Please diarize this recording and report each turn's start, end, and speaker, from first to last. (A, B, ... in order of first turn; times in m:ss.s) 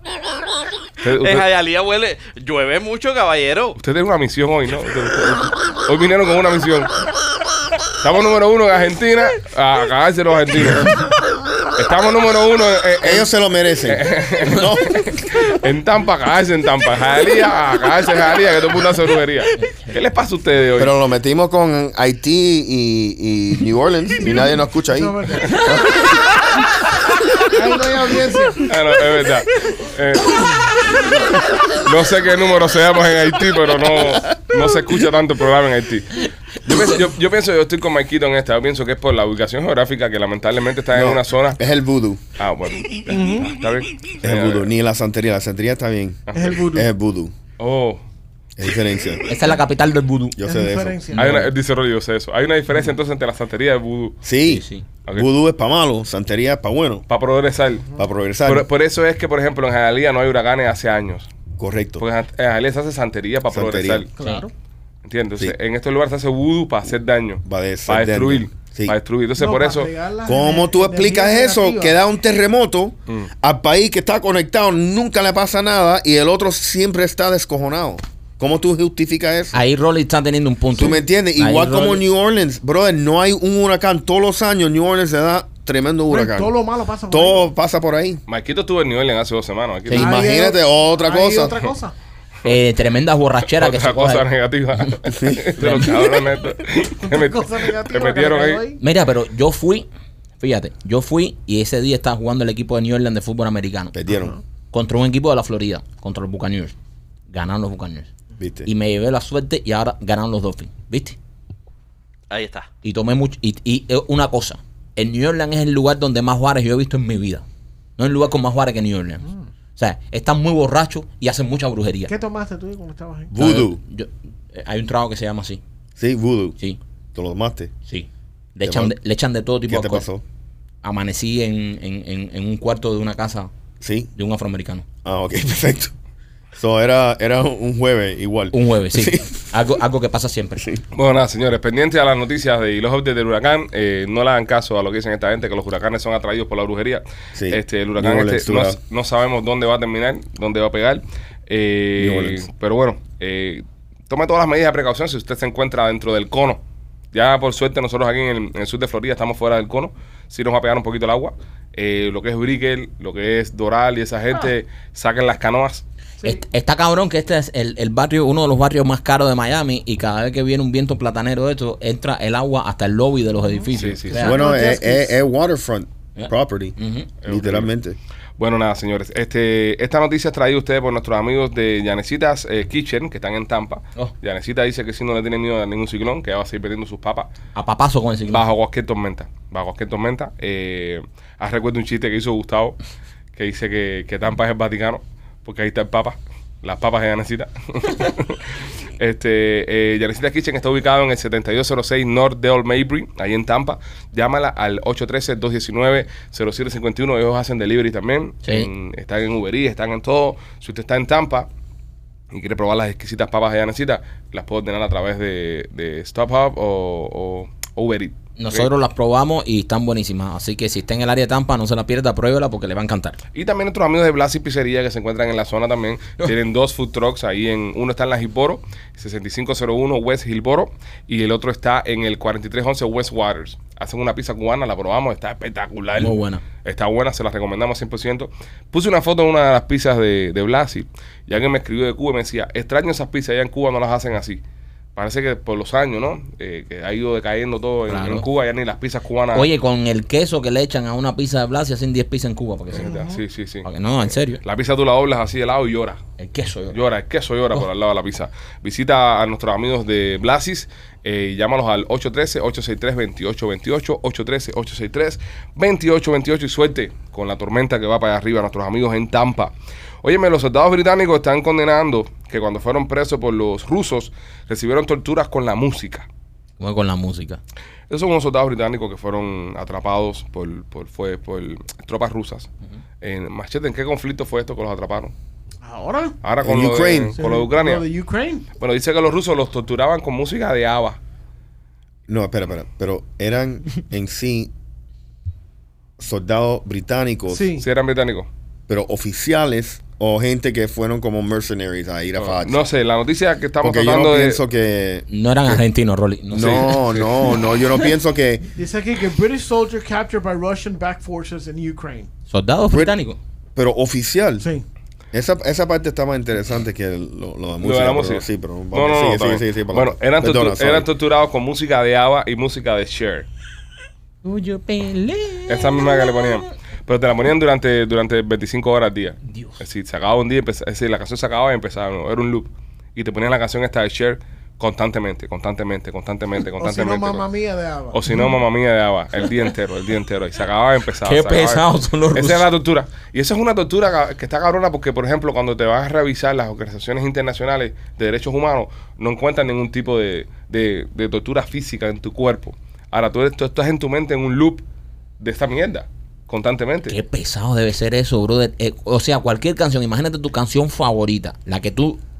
0:01.0-0:01.5 A
0:01.1-0:03.8 B
0:03.8-0:06.9 A
0:08.0-0:10.9 A
0:11.8-0:13.3 A
0:13.0-0:15.0 C
0:13.8-0:20.9 A
0:20.8-0:25.9 C
0:24.3-0:25.8 D
0:27.4-0:28.7 D
0:28.6-0:30.9 A
0:31.8-0:41.6 A
0:40.9-0:42.2 C
0:42.4-0:44.7 A
0:43.1-0:43.6 D
0:44.2-0:47.3 C
0:46.3-0:46.6 A
0:46.3-0:46.9 D
0:47.6-0:48.0 A
0:48.6-0:49.3 C
0:49.3-0:50.4 E
0:50.4-0:51.0 C
0:50.4-0:51.4 D
0:51.1-0:54.2 A
0:51.2-0:51.5 E
0:54.2-0:57.0 C
0:54.4-0:54.9 E
0:57.1-0:57.9 A
0:58.0-0:58.7 C
0:58.4-1:01.3 A
1:01.6-1:02.1 C
1:02.0-1:04.1 A
1:03.5-1:04.1 C
1:04.2-1:04.5 D
1:05.0-1:09.9 A
1:07.4-1:08.9 C
1:09.4-1:12.0 D
1:10.2-1:19.6 C
1:19.5-1:22.0 E
1:20.8-1:26.5 C
1:26.1-1:27.5 D
1:27.1-1:28.2 C
1:28.3-1:30.2 A
1:29.9-1:30.2 E
1:29.9-1:31.6 C
1:29.9-1:31.9 D
1:32.4-1:34.3 E
1:33.4-1:38.6 A
1:35.1-1:35.6 C
1:35.6-1:36.2 E
1:37.0-1:38.8 D
1:38.8-1:39.9 E
1:40.4-1:43.9 E
1:43.9-1:44.3 C
1:44.1-1:44.4 D
1:44.7-1:46.8 E
1:47.3-1:48.1 E
1:48.4-1:48.7 C
1:48.6-1:51.2 E
1:52.3-1:52.7 B
1:52.8-1:57.4 E
1:58.0-2:02.1 E
2:02.1-2:03.3 D
2:03.3-2:03.8 C
2:03.4-2:05.6 E
2:06.0-2:06.6 C
2:07.1-2:07.7 C
2:07.9-2:10.1 E
2:08.6-2:08.9 C
2:09.7-2:10.2 C
2:10.8-2:13.5 E
2:13.8-2:14.1 C
2:14.1-2:14.9 E
2:15.0-2:15.9 C
2:16.6-2:19.4 C
2:18.5-2:20.7 E
2:20.9-2:36.6 A
2:27.4-2:28.8 C
2:32.0-2:32.4 C
2:37.1-2:45.8 A
2:46.2-2:54.5 E
2:53.4-2:55.2 D
2:53.7-2:54.2 A
2:54.2-2:58.0 C
2:56.2-2:57.1 E
2:57.2-2:57.7 A
2:58.4-3:07.3 A
3:07.6-3:08.4 E
3:08.3-3:12.8 A
3:13.4-3:31.5 A
3:28.4-3:28.7 E
3:32.3-3:38.7 A
3:38.4-3:43.2 E
3:43.3-4:04.4 A
3:56.0-3:56.4 E
4:05.0-4:09.5 A
4:07.9-4:08.3 E
4:09.3-4:12.9 E
4:12.7-4:13.7 A
4:12.7-4:13.2 D
4:13.6-4:14.4 E
4:14.4-4:16.0 A
4:16.2-4:16.8 E
4:16.7-4:36.1 A
4:36.6-4:37.4 E
4:37.9-4:42.5 A
4:43.0-4:45.1 A
4:45.6-4:46.2 D
4:46.2-4:47.9 A
4:46.4-4:47.2 C
4:47.2-4:48.4 D
4:48.6-4:51.0 A
4:52.1-4:54.5 C
4:56.0-4:57.5 C
4:57.3-4:57.6 D
4:57.6-4:58.3 A
4:58.7-5:02.6 C
5:02.2-5:04.4 A
5:03.6-5:05.6 C
5:05.1-5:06.9 E
5:06.3-5:08.4 C
5:06.4-5:07.3 A
5:08.6-5:12.1 D
5:12.3-5:13.2 E
5:13.6-5:14.5 C
5:15.1-5:20.9 C
5:17.6-5:23.3 A
5:24.2-5:26.5 E
5:25.5-5:37.3 A
5:29.2-5:29.6 E
5:36.6-5:38.0 D
5:37.9-5:54.6 A
5:41.0-5:42.5 E
5:55.2-5:57.0 A
5:56.9-6:02.0 E